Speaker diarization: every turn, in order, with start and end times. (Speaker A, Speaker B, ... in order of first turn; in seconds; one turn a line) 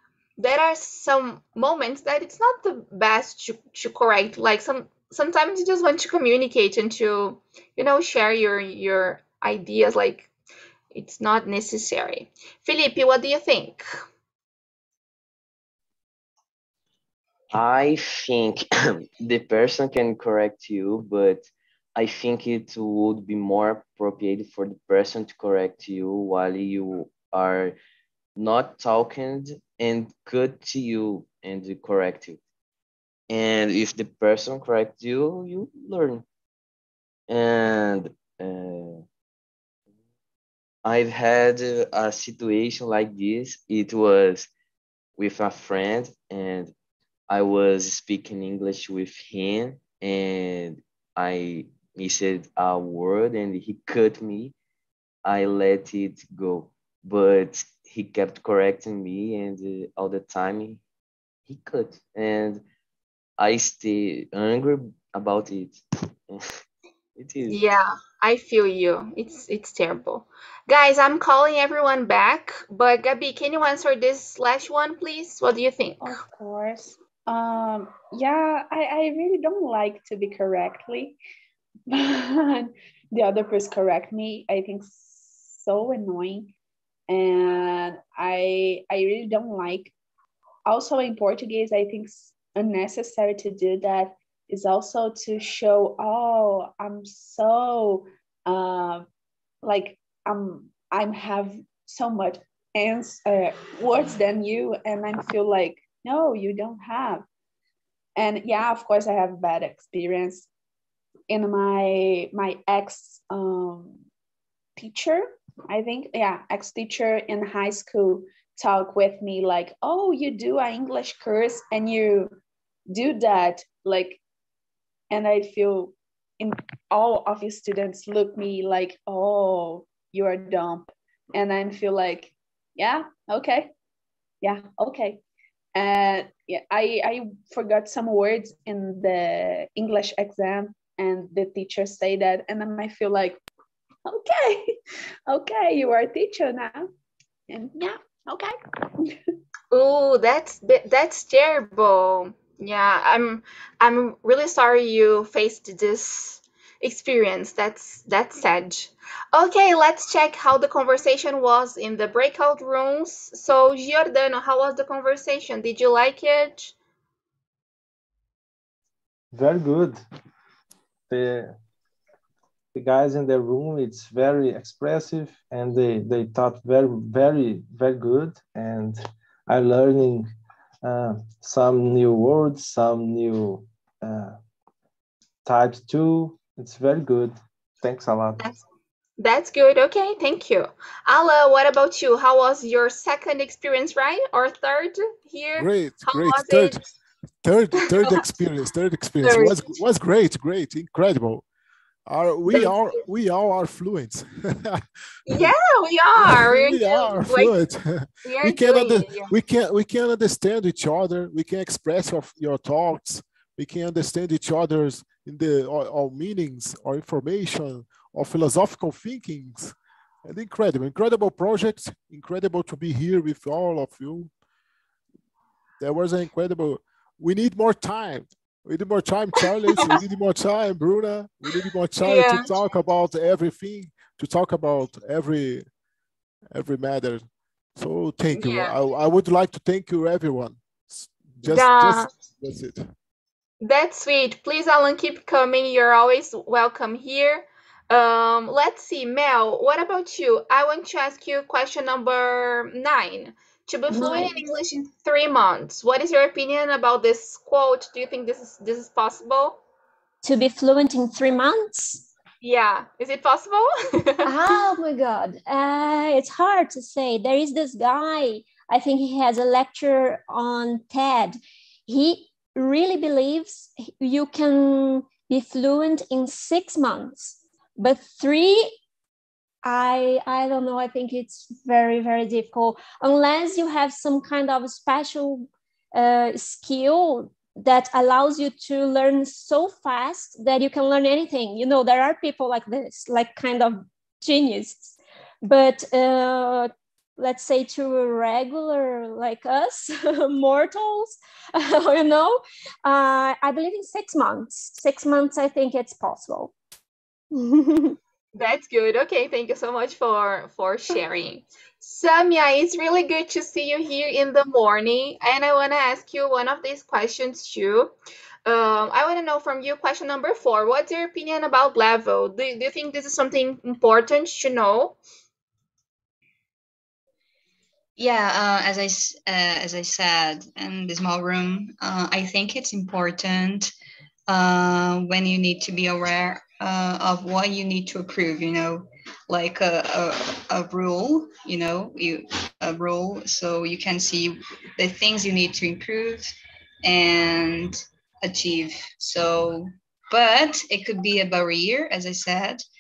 Speaker A: 0.4-10.3
Speaker A: 10.9-13.8
Speaker B: 17.5-18.6
Speaker B: 19.2-27.8
Speaker B: 28.4-32.4
Speaker B: 33.3-36.2
Speaker B: 37.3-39.0
Speaker B: 40.9-44.5
Speaker B: 45.2-46.7
Speaker B: 47.3-54.5
Speaker B: 55.2-60.8
Speaker B: 61.5-62.6
Speaker B: 63.4-66.4
Speaker B: 67.2-67.6
Speaker A: 67.5-76.2
Speaker C: 76.0-81.2
Speaker C: 81.9-86.5
Speaker C: 87.1-89.9
Speaker C: 90.7-99.1
Speaker C: 99.6-107.3
Speaker C: 108.2-110.5
Speaker C: 111.3-114.0
Speaker C: 114.8-122.3
Speaker C: 122.9-124.2
Speaker C: 125.1-133.7
Speaker C: 134.4-135.2
Speaker C: 135.8-143.4
Speaker C: 144.1-144.8
Speaker C: 145.3-146.9
Speaker C: 147.5-149.2
Speaker A: 149.7-166.8
Speaker D: 169.3-170.0
Speaker D: 171.1-171.6
Speaker D: 172.8-180.3
Speaker D: 180.8-184.4
Speaker D: 185.4-188.4
Speaker A: 189.2-196.8
Speaker E: 195.6-196.9
Speaker E: 197.4-201.5
Speaker A: 199.2-199.8
Speaker E: 202.1-205.5
Speaker A: 202.5-202.9
Speaker A: 205.3-207.5
Speaker E: 206.2-224.3
Speaker A: 208.2-209.3
Speaker E: 225.8-235.7
Speaker A: 232.0-232.5
Speaker E: 236.5-242.9
Speaker A: 238.3-238.8
Speaker A: 241.4-242.1
Speaker A: 243.6-259.6
Speaker F: 253.9-254.3
Speaker F: 260.2-262.1
Speaker A: 262.4-264.4
Speaker F: 264.2-278.8
Speaker F: 279.6-306.5
Speaker A: 308.4-317.9
Speaker A: 318.5-325.0
Speaker G: 328.0-333.7
Speaker G: 334.3-352.6